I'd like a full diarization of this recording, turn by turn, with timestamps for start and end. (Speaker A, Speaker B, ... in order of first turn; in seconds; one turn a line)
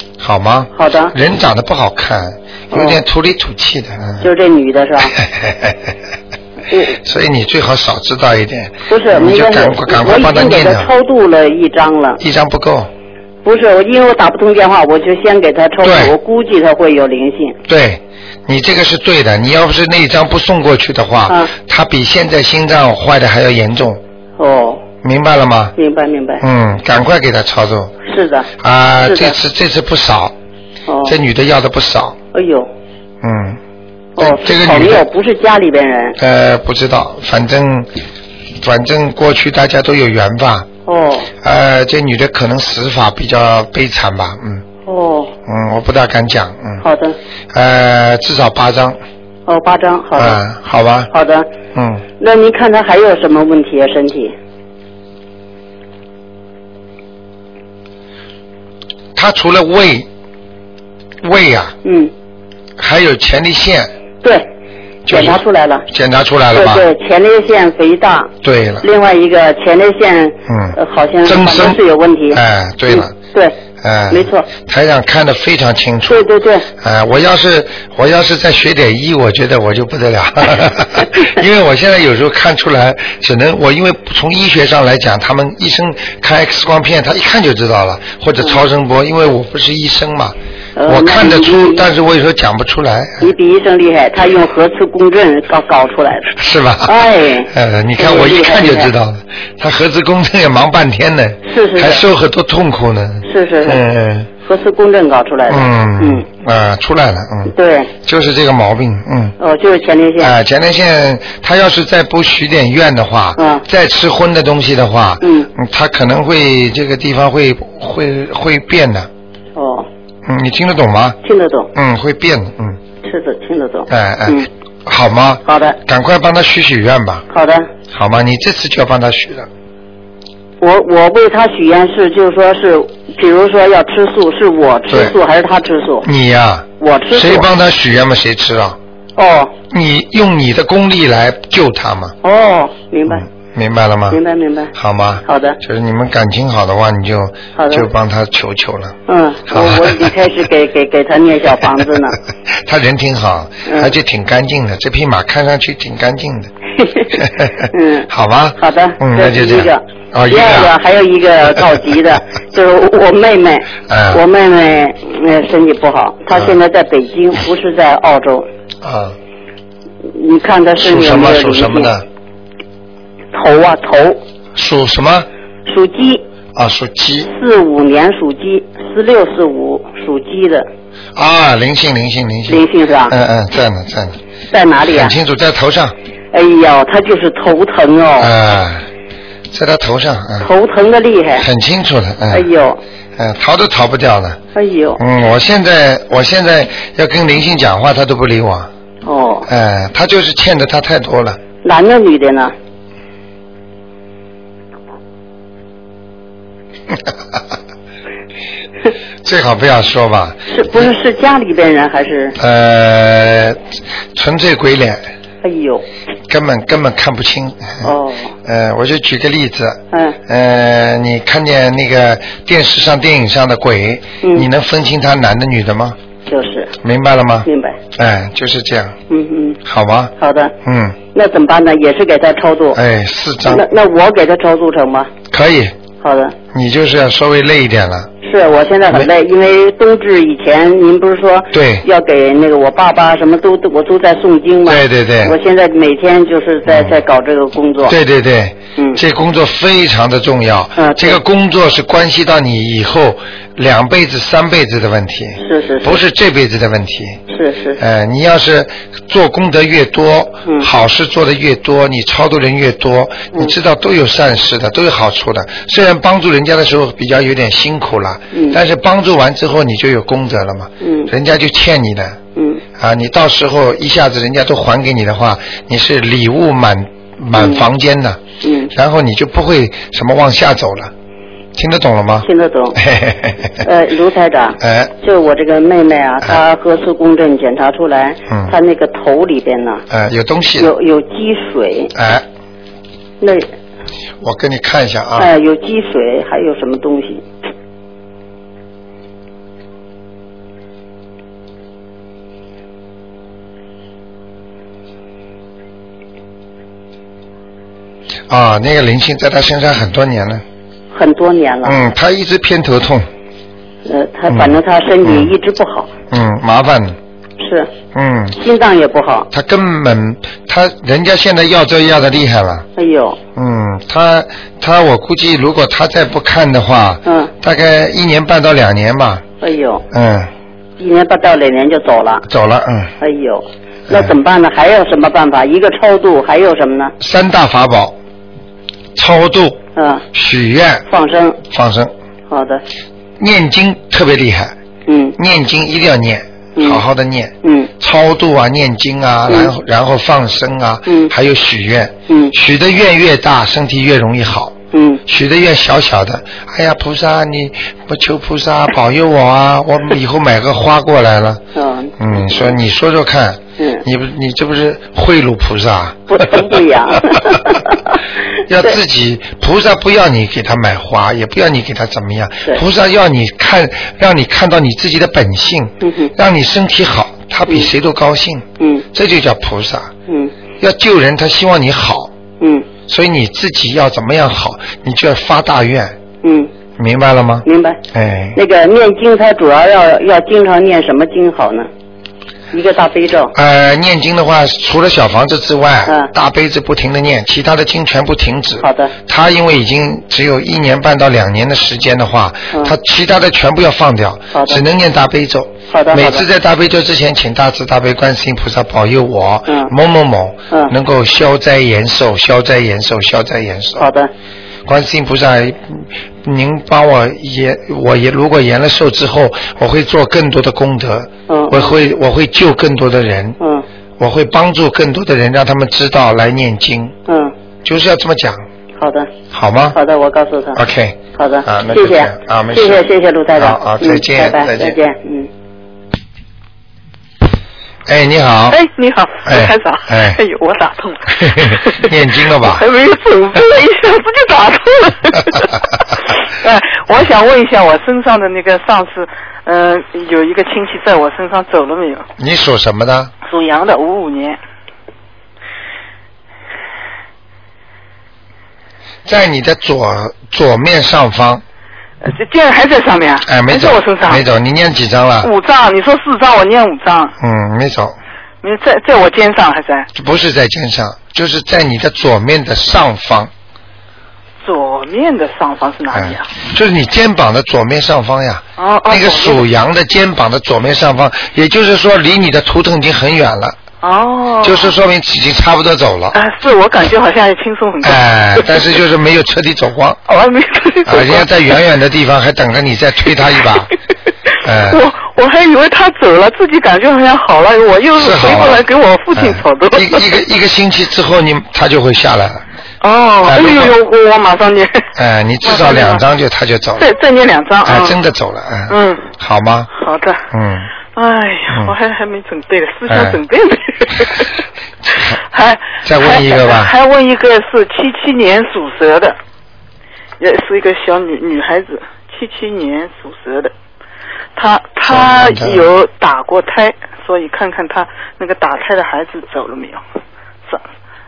Speaker A: 0.2-4.3
Speaker B: 0.7-1.1
Speaker B: 2.7-3.0
Speaker B: 4.2-5.1
Speaker A: 5.0-6.0
Speaker B: 6.7-7.0
Speaker A: 7.0-10.9
Speaker B: 8.9-12.2
Speaker A: 12.2-12.9
Speaker B: 13.4-17.6
Speaker A: 15.8-16.1
Speaker A: 17.7-24.0
Speaker B: 24.4-24.8
Speaker A: 25.0-25.7
Speaker B: 25.8-26.4
Speaker A: 26.4-27.9
Speaker B: 28.0-28.5
Speaker A: 28.6-30.3
Speaker B: 29.0-29.4
Speaker B: 30.9-31.1
Speaker A: 31.0-32.2
Speaker B: 32.3-32.7
Speaker A: 33.2-33.6
Speaker B: 34.2-36.2
Speaker A: 34.2-35.0
Speaker A: 36.2-37.9
Speaker A: 38.6-40.7
Speaker B: 40.9-41.3
Speaker A: 41.4-44.6
Speaker B: 44.9-45.3
Speaker A: 45.5-46.8
Speaker B: 46.8-47.2
Speaker A: 47.5-49.0
Speaker B: 49.5-50.4
Speaker A: 50.1-51.1
Speaker B: 51.1-51.5
Speaker A: 51.7-52.0
Speaker B: 52.2-54.3
Speaker A: 59.1-60.1
Speaker A: 61.2-61.7
Speaker B: 61.8-62.1
Speaker A: 62.8-63.9
Speaker B: 64.2-64.5
Speaker A: 65.0-66.9
Speaker B: 65.1-65.8
Speaker B: 66.5-68.3
Speaker A: 68.4-68.8
Speaker B: 68.8-73.5
Speaker A: 70.5-73.1
Speaker A: 73.8-93.3
Speaker B: 74.1-74.5
Speaker B: 76.1-76.7
Speaker B: 90.8-91.9
Speaker B: 93.2-96.3
Speaker A: 96.3-104.3
Speaker B: 96.8-98.9
Speaker B: 101.4-102.0
Speaker B: 103.2-103.8
Speaker B: 104.4-106.2
Speaker A: 105.5-109.3
Speaker B: 107.5-107.9
Speaker B: 109.4-110.3
Speaker A: 110.2-119.1
Speaker B: 113.4-113.6
Speaker B: 115.2-115.5
Speaker B: 119.5-119.9
Speaker A: 120.2-121.2
Speaker B: 121.2-121.7
Speaker A: 121.7-122.8
Speaker B: 123.0-124.5
Speaker A: 123.9-127.3
Speaker B: 125.5-125.8
Speaker B: 127.3-127.7
Speaker A: 127.9-129.5
Speaker B: 130.6-136.1
Speaker A: 134.9-135.2
Speaker A: 136.0-138.8
Speaker B: 136.8-137.5
Speaker B: 139.2-139.5
Speaker A: 139.7-142.2
Speaker B: 142.2-143.2
Speaker A: 143.1-144.2
Speaker B: 144.1-144.7
Speaker A: 144.7-149.0
Speaker B: 145.2-145.6
Speaker B: 147.6-147.9
Speaker B: 149.1-152.2
Speaker A: 149.5-150.1
Speaker A: 152.5-156.5
Speaker B: 153.7-153.9
Speaker B: 156.8-157.2
Speaker A: 157.1-160.7
Speaker B: 157.7-168.5
Speaker A: 163.9-164.2
Speaker A: 168.8-169.2
Speaker B: 170.1-171.9
Speaker A: 170.8-172.1
Speaker B: 173.3-174.2
Speaker A: 174.5-175.3
Speaker B: 175.7-176.2
Speaker A: 176.5-177.3
Speaker B: 177.2-180.7
Speaker A: 181.1-184.2
Speaker B: 182.5-183.1
Speaker B: 184.5-185.1
Speaker A: 184.8-185.9
Speaker B: 186.3-188.3
Speaker A: 188.2-188.8
Speaker A: 189.5-190.5
Speaker B: 190.4-191.4
Speaker A: 191.4-192.5
Speaker B: 192.3-192.8
Speaker A: 193.2-194.4
Speaker B: 194.5-195.0
Speaker A: 195.0-198.7
Speaker B: 199.0-199.5
Speaker A: 199.5-201.4
Speaker B: 201.6-202.5
Speaker A: 206.9-207.4
Speaker A: 209.2-210.9
Speaker B: 210.5-212.4
Speaker A: 212.4-215.1
Speaker B: 215.4-215.8
Speaker A: 216.3-226.0
Speaker B: 217.8-218.3
Speaker B: 219.9-220.2
Speaker B: 224.2-224.5
Speaker B: 226.3-226.7
Speaker A: 226.8-229.0
Speaker B: 227.4-227.8
Speaker B: 229.1-229.6
Speaker A: 229.6-231.0
Speaker B: 230.2-230.5
Speaker B: 231.1-232.8
Speaker A: 232.7-233.7
Speaker B: 233.4-235.1
Speaker A: 235.3-235.8
Speaker B: 236.0-236.3
Speaker A: 236.5-238.1
Speaker B: 238.2-247.9
Speaker A: 241.5-241.8
Speaker A: 244.7-245.3
Speaker A: 246.7-246.9
Speaker A: 247.8-257.2
Speaker B: 250.8-251.2
Speaker B: 255.4-256.0
Speaker B: 257.3-257.8
Speaker A: 257.8-272.2
Speaker B: 268.3-268.6
Speaker B: 270.8-271.1
Speaker B: 272.3-272.6
Speaker A: 272.8-278.2
Speaker B: 277.3-277.6
Speaker B: 278.4-278.7
Speaker A: 278.7-280.9
Speaker A: 281.5-283.6
Speaker B: 282.2-282.8
Speaker B: 283.6-289.8
Speaker A: 284.6-284.9
Speaker A: 288.3-288.5
Speaker A: 289.9-290.7
Speaker B: 290.6-291.9
Speaker A: 291.9-292.2
Speaker B: 293.2-293.5
Speaker A: 294.2-295.3
Speaker B: 295.2-297.2
Speaker A: 308.3-310.4
Speaker B: 310.9-311.8
Speaker A: 311.6-313.1
Speaker B: 313.8-315.9
Speaker A: 314.3-315.3
Speaker A: 316.1-317.0
Speaker B: 317.4-317.7
Speaker A: 317.9-318.4
Speaker B: 318.4-319.3
Speaker A: 319.3-322.7
Speaker B: 322.8-323.2
Speaker A: 323.3-329.2
Speaker B: 327.1-327.3
Speaker B: 329.4-329.9
Speaker A: 329.9-330.3
Speaker B: 330.8-332.2
Speaker A: 332.3-332.9
Speaker B: 333.0-336.9
Speaker A: 337.0-338.0
Speaker A: 338.9-339.6
Speaker B: 339.8-340.0
Speaker A: 340.1-340.9
Speaker B: 340.9-341.4
Speaker A: 341.5-341.9
Speaker B: 342.3-342.6
Speaker A: 343.2-344.5
Speaker B: 344.9-345.1
Speaker A: 345.2-361.4
Speaker B: 346.6-346.8
Speaker B: 347.4-347.7
Speaker B: 350.9-351.1
Speaker B: 352.1-352.3
Speaker B: 354.7-355.0
Speaker B: 361.5-362.5
Speaker A: 362.0-367.6
Speaker B: 363.6-363.8
Speaker B: 366.1-368.0
Speaker A: 368.5-379.9
Speaker B: 375.8-376.1
Speaker B: 378.6-378.9
Speaker B: 380.1-380.3
Speaker A: 380.6-382.1
Speaker B: 382.4-382.7
Speaker A: 382.9-386.0
Speaker B: 386.2-386.5
Speaker A: 386.8-388.4
Speaker B: 387.4-387.8
Speaker B: 388.3-391.7
Speaker B: 392.5-393.3
Speaker A: 393.3-413.9
Speaker B: 398.6-398.9
Speaker B: 404.3-404.6
Speaker B: 405.7-406.2
Speaker B: 413.8-414.1
Speaker A: 414.6-423.4
Speaker B: 421.3-421.7
Speaker B: 423.4-423.6
Speaker A: 424.0-426.9
Speaker B: 427.1-427.3
Speaker A: 427.6-428.4
Speaker B: 428.8-429.1
Speaker A: 429.3-429.8
Speaker B: 429.7-430.6
Speaker A: 430.5-432.8
Speaker B: 431.1-435.3
Speaker A: 433.4-434.8
Speaker A: 437.9-438.6
Speaker C: 438.5-452.1
Speaker A: 439.2-440.2
Speaker A: 441.2-442.6
Speaker A: 452.2-453.1
Speaker C: 453.3-454.4
Speaker A: 459.1-461.4
Speaker C: 462.0-464.2
Speaker A: 463.2-465.3
Speaker C: 465.2-467.1
Speaker A: 467.2-467.9
Speaker C: 468.4-469.9
Speaker A: 469.9-473.3
Speaker C: 474.4-476.3
Speaker A: 475.9-483.6
Speaker C: 478.6-479.5
Speaker C: 483.8-484.7
Speaker A: 484.4-486.2
Speaker C: 486.1-488.6
Speaker A: 487.8-490.0
Speaker C: 490.1-491.3
Speaker A: 490.8-493.7
Speaker A: 494.4-494.8
Speaker C: 494.6-500.1
Speaker A: 498.0-502.4
Speaker C: 502.8-504.9
Speaker A: 503.2-503.7
Speaker A: 504.9-506.9
Speaker C: 505.4-506.0
Speaker C: 506.8-508.0
Speaker A: 507.6-509.7
Speaker C: 508.7-509.1
Speaker C: 509.7-510.2
Speaker A: 510.3-510.7
Speaker C: 510.9-514.3
Speaker A: 511.5-511.7
Speaker A: 512.9-513.2
Speaker A: 514.9-515.2
Speaker C: 515.3-519.2
Speaker A: 515.8-516.7
Speaker C: 520.2-523.5
Speaker C: 524.4-529.8
Speaker A: 524.9-525.7